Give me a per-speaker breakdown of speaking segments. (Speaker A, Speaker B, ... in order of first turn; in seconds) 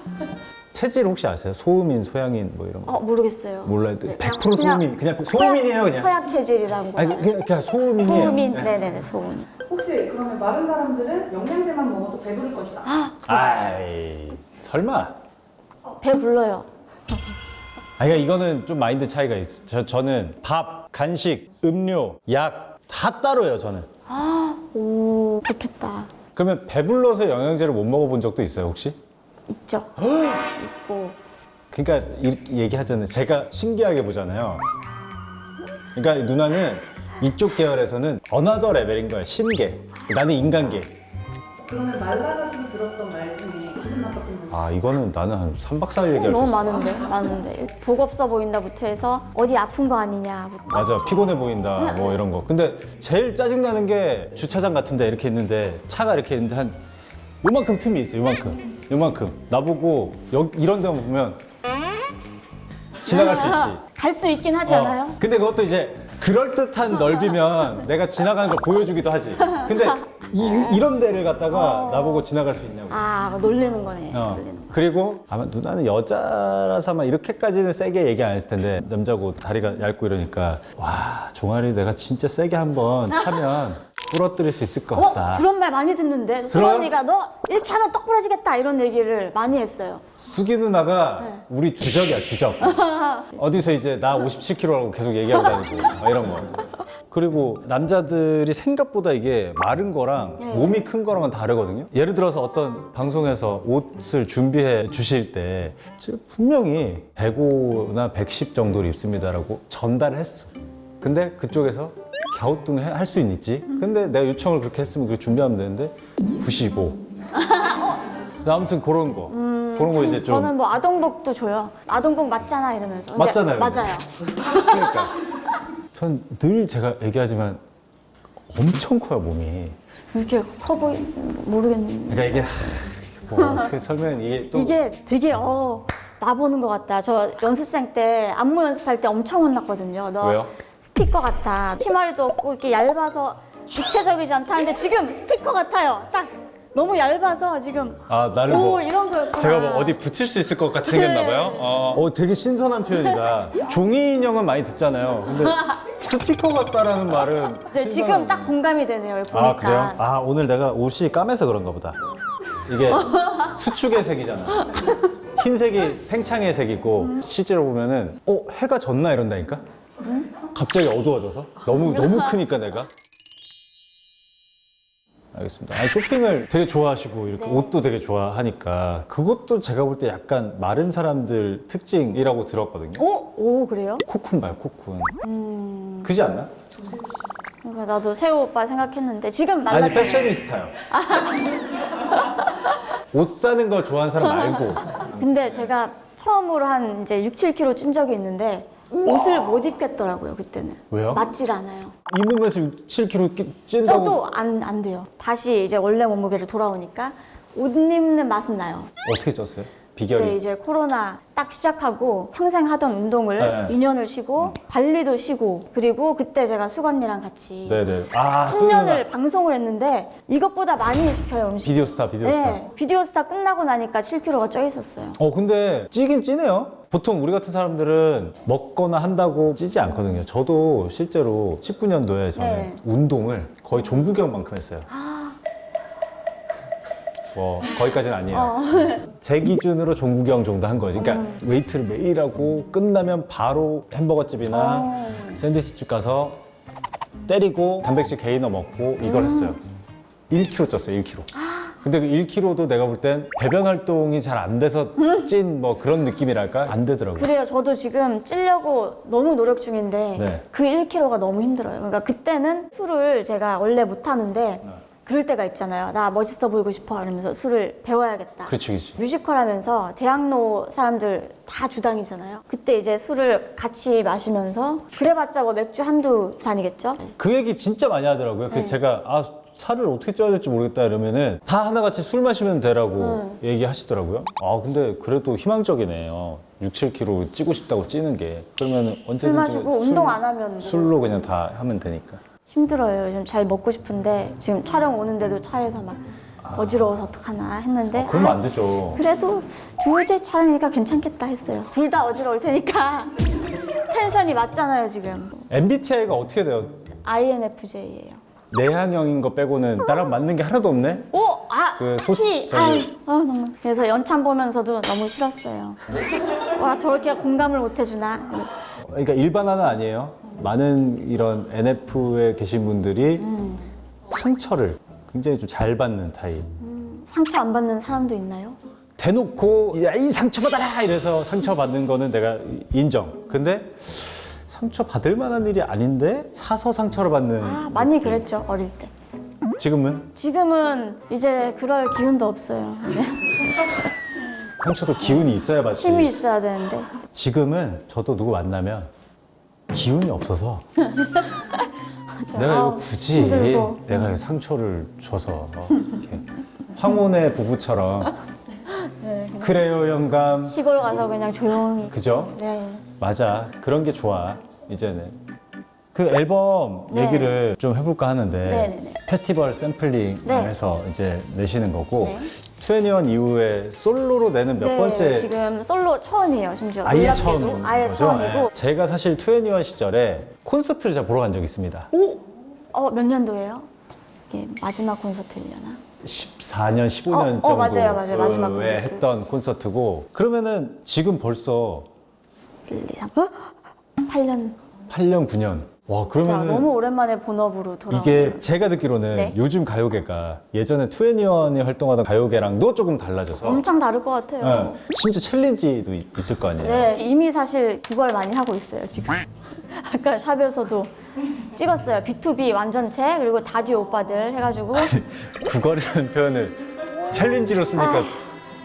Speaker A: 0.7-3.0, 3.6-6.1, 7.0-8.7, 13.2-15.1, 18.0-23.9, 26.3-29.0, 30.0-30.4, 31.7-34.6, 35.9-40.9, 44.5-46.8, 50.7-56.8, 57.4-61.4, 63.0-63.8, 64.7-73.0, 74.1-85.5, 86.5-86.9, 90.2-117.0, 118.4-120.5, 123.1-123.8, 124.4-125.2, 125.9-127.6, 128.5-129.8, 132.1-134.7, 140.2-140.5, 148.1-158.5, 159.3-162.0, 162.7-169.6, 170.3-172.9, 175.3-183.0, 184.0-185.2, 186.0-186.5, 189.7-190.8, 193.1-195.2, 199.0-199.5, 200.9-201.2, 202.1-204.2, 209.0-210.4, 213.4-213.8, 217.7-219.0, 221.6-222.6, 225.2-234.9, 237.3-246.4, 247.2-249.6, 250.3-251.3, 251.8-257.3, 260.1-260.4, 268.5-269.0, 277.2-292.2, 296.4-296.8, 297.9-299.0, 305.5-306.8, 308.5-311.1, 311.8-312.9, 318.8-323.3, 324.1-326.5, 329.0-338.2, 339.6-340.1, 344.6-346.1, 347.0-348.9, 349.7-350.6, 352.3-358.1, 359.4-360.6, 361.9-362.4, 363.0-365.1, 365.9-375.3, 376.8-381.9, 386.0-391.9, 394.9-396.7, 397.9-403.6, 404.4-407.0, 414.7-418.2
Speaker B: 2.9-7.4, 7.9-9.5, 12.8-13.5, 15.8-16.7, 24.1-26.1, 29.5-31.2, 46.1-52.2, 63.0-65.2, 69.5-69.9, 71.5-72.3, 72.9-74.7, 84.9-90.1, 92.6-93.4, 100.4-100.8, 117.4-118.0, 119.3-125.1, 130.1-132.5, 133.4-133.7, 134.5-150.0, 150.8-151.7, 157.7-160.0, 163.0-163.4, 171.8-172.2, 177.4-177.8, 183.0-184.1, 185.2-186.1, 187.6-192.8, 194.4-201.9, 203.8-208.9, 210.1-217.9, 218.4-225.2, 232.3-232.8, 234.9-235.3, 238.3-239.1, 241.0-241.4, 244.5-245.4, 249.0-249.6, 251.3-251.7, 257.1-277.1, 278.5-278.8, 283.0-283.4, 289.1-291.1, 292.5-296.0, 296.5-305.5, 307.0-308.2, 311.1-318.5, 323.2-323.7, 326.6-328.6, 337.4-338.9, 340.1-343.9, 345.0-346.9, 350.9-351.7, 352.2-354.0, 358.6-359.6, 360.5-362.8, 366.9-367.4, 368.4-369.0, 370.2-370.5, 372.0-372.3, 374.6-378.5, 381.9-383.7, 384.3-385.8, 387.1-389.0, 392.7-394.6, 396.2-398.4, 403.4-404.8, 406.6-410.9, 411.5-415.0, 417.7-418.1
Speaker C: 9.7-12.8, 41.6-44.5